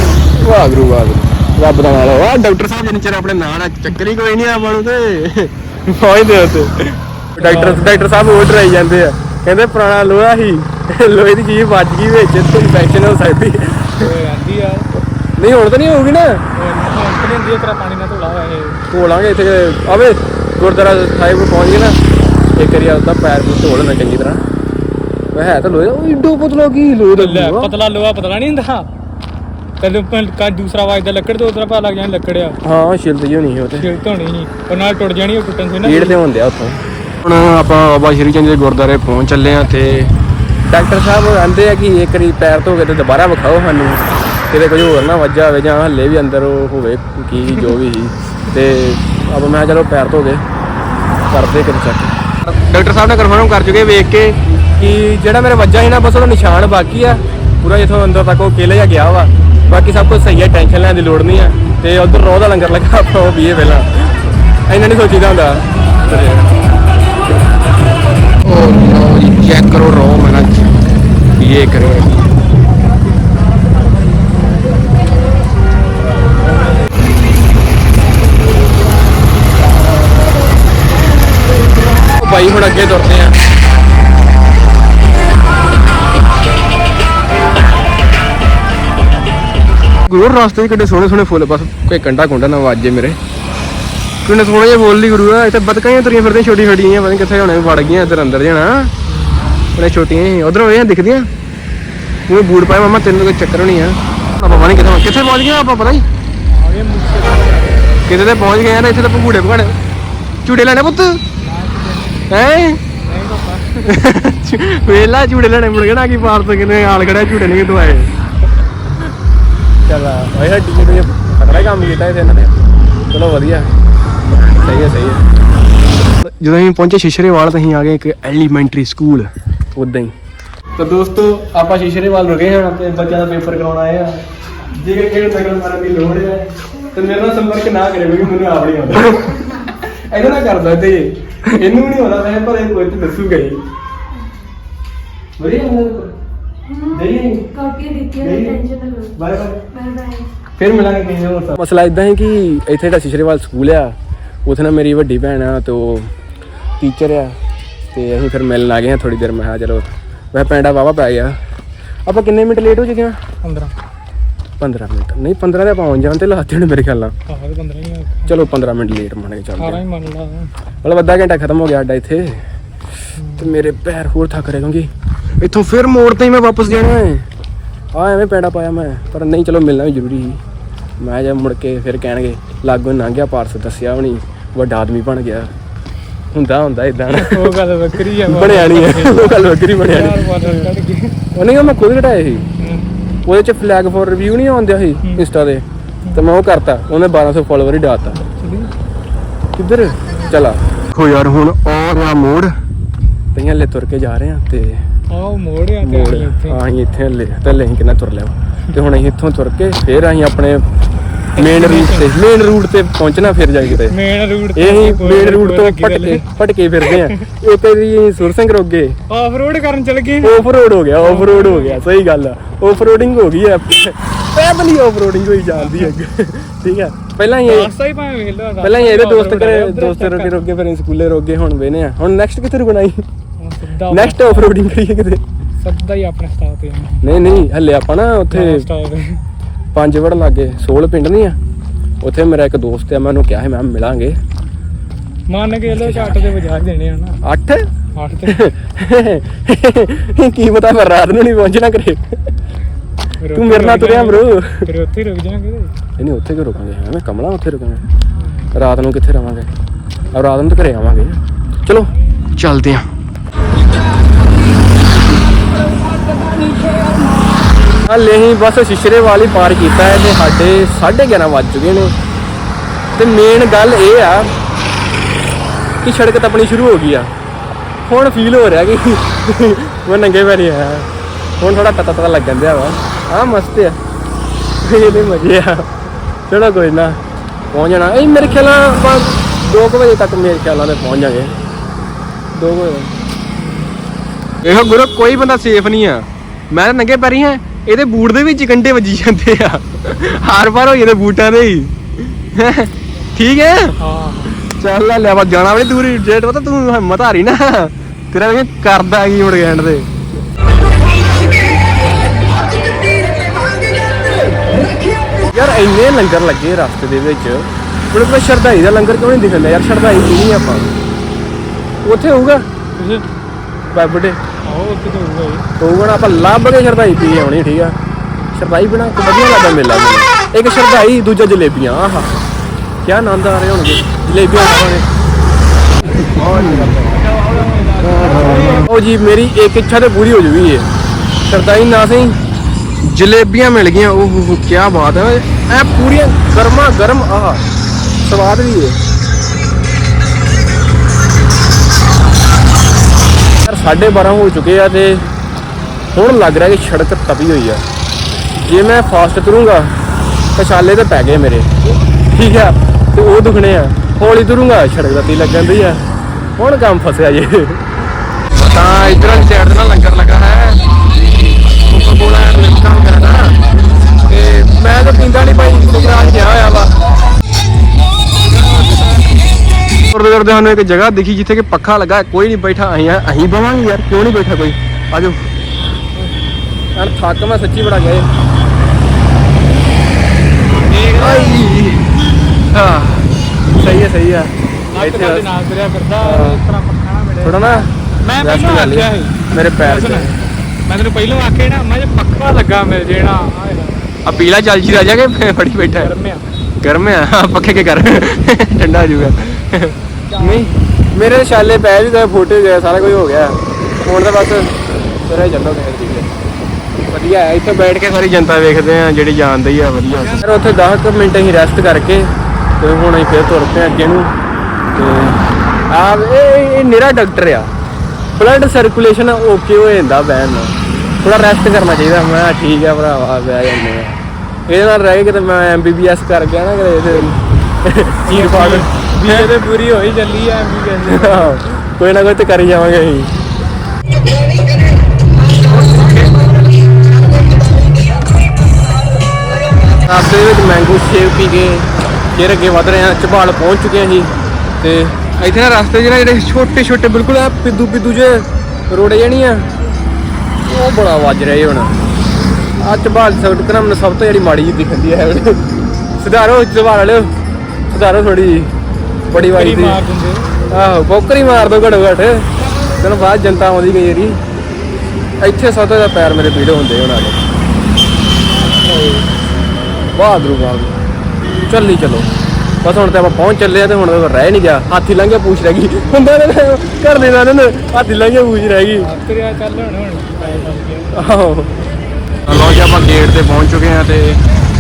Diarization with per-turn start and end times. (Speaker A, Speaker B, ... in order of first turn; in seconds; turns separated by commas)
Speaker A: 0.3-14.1, Speaker B: 7.4-8.1, Speaker B: 14.0-14.9, Speaker A: 15.4-16.4, Speaker B: 16.5-18.9, Speaker A: 18.9-22.0, Speaker A: 22.6-24.4, Speaker A: 25.3-27.7, Speaker B: 27.1-28.9, Speaker B: 29.8-32.6, Speaker A: 32.6-33.9, Speaker B: 33.8-36.2, Speaker A: 35.8-50.4, Speaker A: 51.3-66.5, Speaker A: 68.4-70.8, Speaker A: 71.4-72.2, Speaker A: 82.2-83.4, Speaker A: 90.0-93.2, Speaker A: 94.2-98.9, Speaker B: 99.0-99.5, Speaker A: 99.8-101.3, Speaker A: 102.3-106.0, Speaker B: 106.5-108.0, Speaker A: 108.1-109.7, Speaker A: 110.4-111.2, Speaker B: 111.4-112.4, Speaker A: 112.3-112.8, Speaker B: 112.9-113.9, Speaker A: 113.8-118.1, Speaker A: 119.9-123.7, Speaker A: 124.4-125.2, Speaker A: 126.2-130.1, Speaker A: 130.8-134.2, Speaker A: 134.7-143.6, Speaker A: 145.4-146.1, Speaker A: 146.8-149.8, Speaker C: 147.6-149.1, Speaker C: 149.7-150.2, Speaker A: 150.6-153.9, Speaker A: 154.4-156.1, Speaker A: 156.8-157.3, Speaker A: 157.9-161.4, Speaker A: 162.1-163.2, Speaker B: 163.4-163.7, Speaker A: 164.6-167.1, Speaker B: 167.3-168.4, Speaker A: 168.3-169.8, Speaker B: 169.6-170.5, Speaker A: 170.8-172.4, Speaker B: 173.2-173.6, Speaker A: 173.4-174.9, Speaker A: 175.4-177.2, Speaker A: 177.9-180.4, Speaker A: 181.0-185.5, Speaker A: 186.3-187.5, Speaker B: 187.1-191.2, Speaker A: 188.2-190.6, Speaker A: 191.3-192.4, Speaker B: 192.6-192.9, Speaker A: 193.2-198.2, Speaker B: 195.0-195.2, Speaker B: 198.2-198.7, Speaker A: 199.6-202.5, Speaker B: 200.1-200.4, Speaker A: 203.3-204.8, Speaker B: 205.1-206.6, Speaker A: 205.8-210.6, Speaker B: 211.3-212.2, Speaker A: 211.4-214.0, Speaker B: 213.8-216.3, Speaker A: 214.6-218.9, Speaker B: 216.8-217.2, Speaker B: 219.1-220.4, Speaker A: 220.2-227.7, Speaker B: 221.0-221.9, Speaker B: 225.5-225.9, Speaker B: 227.3-230.4, Speaker A: 228.6-233.0, Speaker B: 233.4-234.6, Speaker A: 233.9-235.2, Speaker B: 235.6-237.1, Speaker A: 237.0-238.7, Speaker B: 238.3-239.2, Speaker A: 239.7-241.4, Speaker A: 242.0-244.2, Speaker B: 245.3-247.2, Speaker A: 245.7-246.1, Speaker A: 247.2-247.7, Speaker B: 247.9-248.4, Speaker A: 248.3-252.1, Speaker B: 253.2-255.8, Speaker A: 253.3-254.7, Speaker A: 256.0-257.8, Speaker B: 258.2-258.5, Speaker A: 258.5-259.5, Speaker A: 260.1-262.9, Speaker B: 266.2-267.0, Speaker A: 267.9-271.9, Speaker A: 272.9-274.3, Speaker A: 275.8-277.1, Speaker A: 277.9-280.9, Speaker A: 281.4-283.8, Speaker A: 284.6-285.7, Speaker A: 286.3-287.0, Speaker A: 287.5-291.3, Speaker A: 292.3-292.9, Speaker B: 293.4-293.8, Speaker A: 294.4-303.8, Speaker B: 303.8-304.4, Speaker A: 304.3-309.9, Speaker A: 315.2-320.7, Speaker A: 321.8-322.4, Speaker B: 322.8-323.0, Speaker A: 323.7-324.2, Speaker B: 324.4-325.4, Speaker A: 325.6-327.8, Speaker A: 328.3-332.2, Speaker A: 332.8-334.9, Speaker A: 335.9-340.7, Speaker B: 337.1-338.6, Speaker A: 341.3-342.2, Speaker A: 342.8-347.4, Speaker A: 348.0-348.8, Speaker A: 353.4-355.1, Speaker A: 355.9-357.6, Speaker A: 358.4-359.7, Speaker A: 360.4-361.6, Speaker A: 362.1-365.9, Speaker A: 366.4-367.6, Speaker A: 368.3-370.6, Speaker A: 371.7-373.4, Speaker A: 374.0-376.8, Speaker A: 378.3-379.0, Speaker A: 379.9-385.2, Speaker A: 386.7-388.1, Speaker B: 390.4-391.4, Speaker A: 390.8-391.9, Speaker A: 392.5-395.3, Speaker B: 394.7-404.1, Speaker A: 396.0-396.4, Speaker A: 397.2-400.2, Speaker A: 404.0-405.9, Speaker B: 405.8-406.3, Speaker A: 406.6-416.1, Speaker B: 410.1-410.6, Speaker A: 416.9-424.1, Speaker B: 419.9-420.5, Speaker A: 424.7-427.5, Speaker A: 428.2-439.4, Speaker B: 438.1-441.4, Speaker A: 440.9-443.1, Speaker A: 445.5-446.3, Speaker A: 449.8-459.5, Speaker A: 460.4-461.7, Speaker A: 462.6-465.4, Speaker A: 466.0-467.1, Speaker A: 467.7-468.5, Speaker A: 469.1-469.8, Speaker B: 469.1-470.3, Speaker A: 470.5-472.3, Speaker A: 472.8-474.2, Speaker A: 475.2-477.2, Speaker B: 478.6-479.1, Speaker A: 479.9-480.7, Speaker A: 481.5-482.1, Speaker A: 482.6-488.9, Speaker B: 488.8-490.9, Speaker A: 490.9-491.5, Speaker A: 492.3-494.2